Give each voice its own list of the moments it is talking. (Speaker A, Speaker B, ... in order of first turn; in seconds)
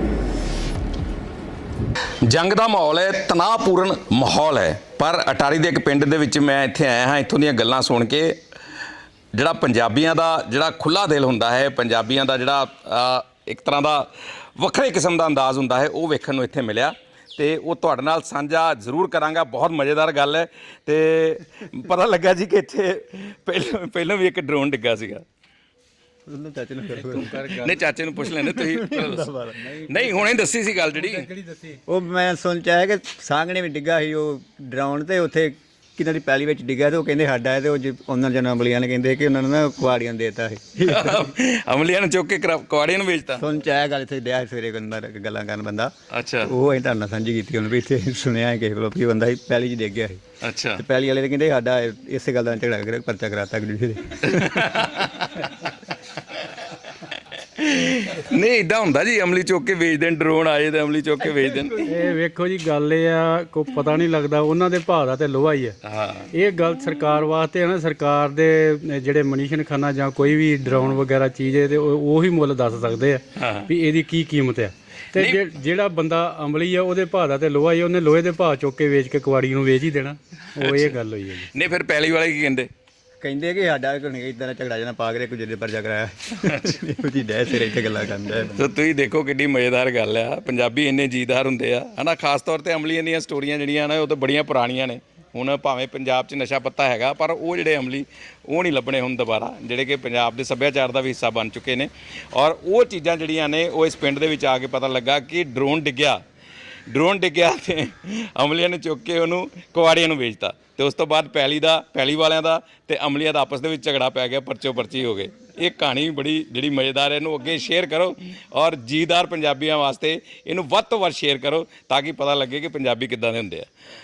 Speaker A: 2.2-8.4, 9.3-25.2, 27.4-31.3, 40.8-43.4, 46.1-46.5, 50.4-50.8, 54.2-55.4, 57.3-61.9, 65.8-66.3, 73.4-73.7, 75.2-75.4, 80.6-81.0, 81.5-82.7, 86.4-86.8, 88.5-106.2, 106.9-123.7
Speaker B: 26.3-27.6, 28.4-29.8, 31.9-41.3, 43.4-45.9, 46.4-50.2, 50.8-54.8, 83.2-88.7
Speaker C: 26.9-27.8, 29.9-30.3, 30.9-31.8, 61.9-65.8, 66.3-81.5